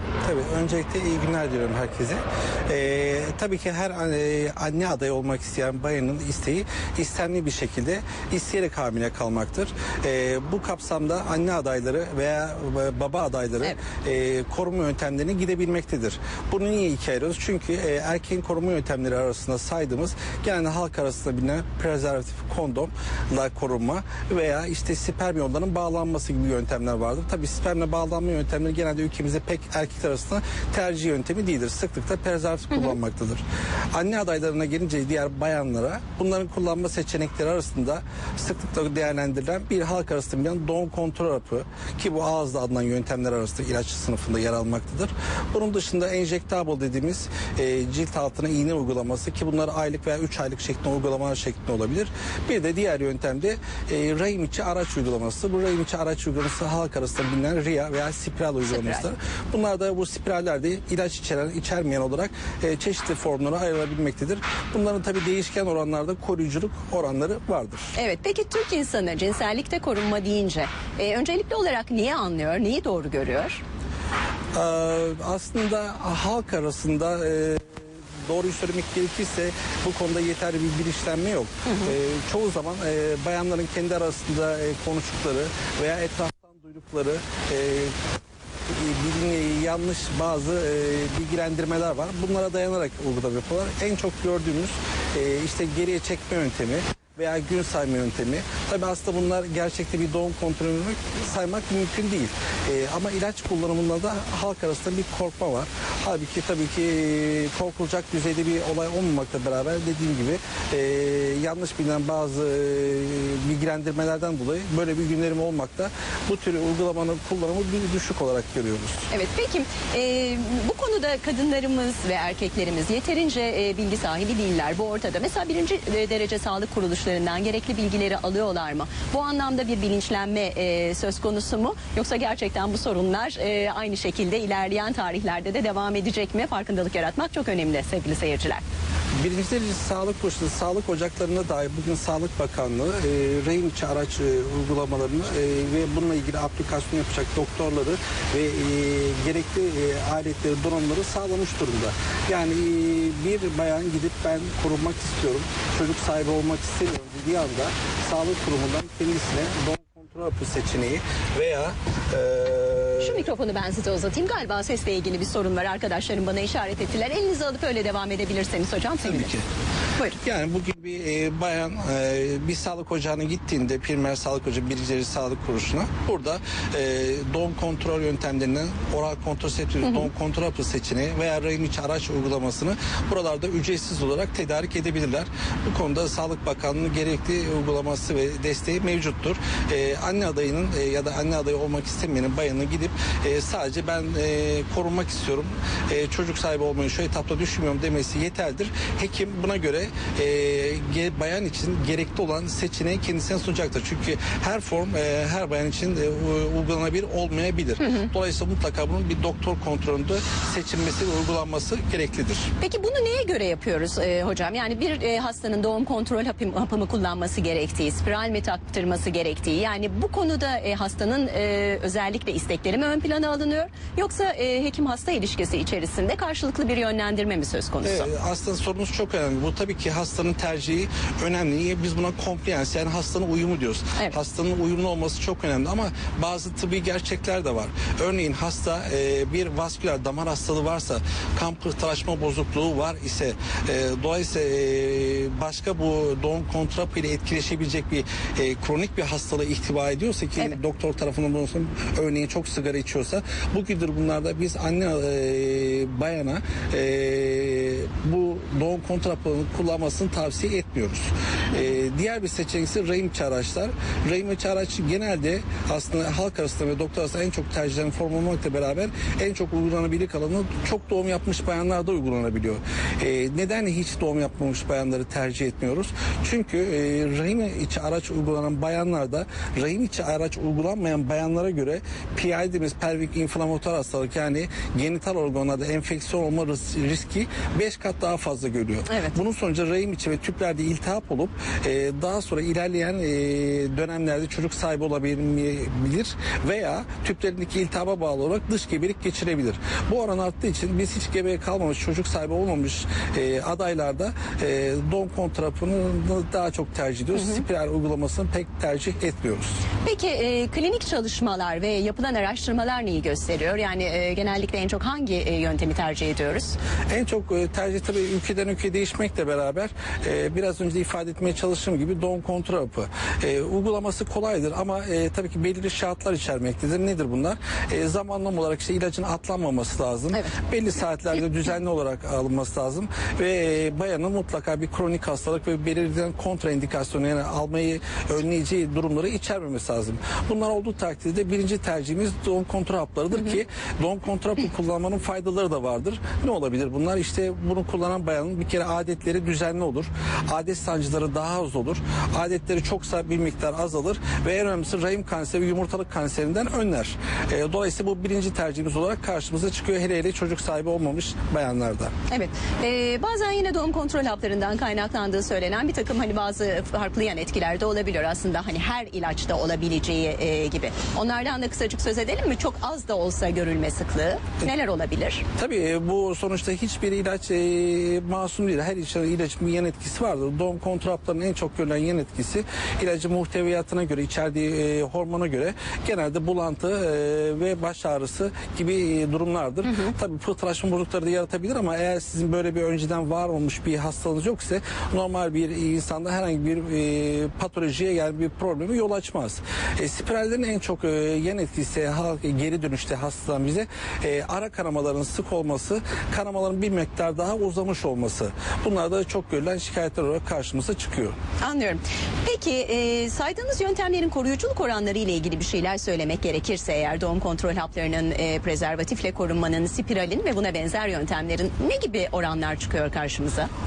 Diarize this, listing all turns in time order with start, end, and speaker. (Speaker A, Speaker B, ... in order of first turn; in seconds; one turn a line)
Speaker A: 0.2-67.9
Speaker B: 58.6-59.0
Speaker B: 67.9-73.6
Speaker A: 74.5-87.9
Speaker B: 81.7-81.9
Speaker A: 88.7-119.1
Speaker B: 119.1-138.6
Speaker A: 139.2-163.3
Speaker B: 163.0-169.3
Speaker A: 169.0-169.4
Speaker A: 170.2-212.5
Speaker B: 179.8-180.1
Speaker B: 207.8-208.1
Speaker B: 212.6-228.1
Speaker A: 227.8-309.6
Speaker B: 288.9-289.1
Speaker B: 307.1-307.4
Speaker B: 309.8-316.6
Speaker A: 316.9-361.9
Speaker B: 362.1-375.2
Speaker A: 375.4-411.1
Speaker B: 411.4-423.5